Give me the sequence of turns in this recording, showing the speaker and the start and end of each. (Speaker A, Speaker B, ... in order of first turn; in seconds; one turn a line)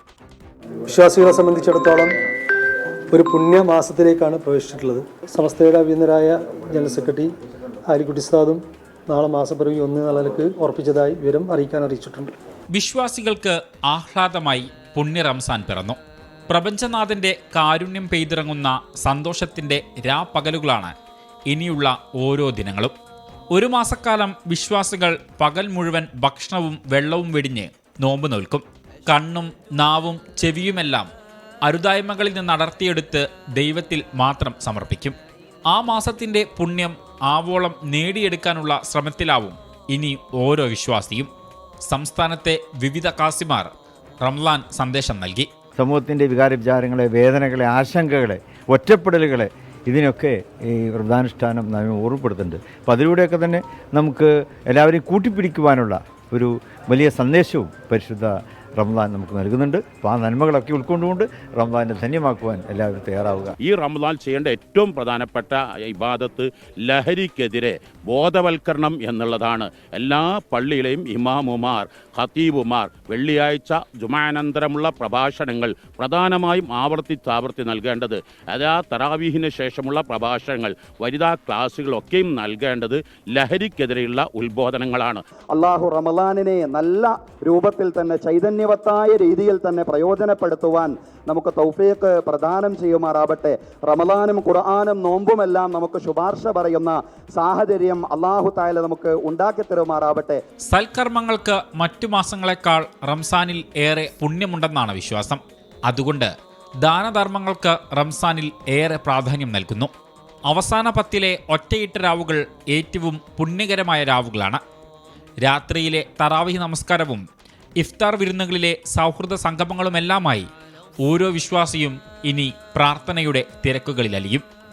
Speaker A: 0.9-2.2
Speaker A: 3.1-7.3
Speaker A: 7.9-12.4
Speaker B: 12.7-16.0
Speaker B: 16.5-20.9
Speaker B: 21.5-22.9
Speaker B: 23.5-31.1
Speaker B: 31.6-35.2
Speaker B: 35.7-41.3
Speaker B: 41.9-43.7
Speaker B: 44.2-45.5
Speaker C: 45.8-63.6
Speaker D: 63.6-85.2
Speaker E: 85.5-100.4
Speaker B: 100.7-106.3
Speaker B: 106.8-109.9
Speaker B: 110.5-114.6
Speaker B: 115.4-117.2
Speaker B: 117.8-120.5
Speaker B: 121.0-124.4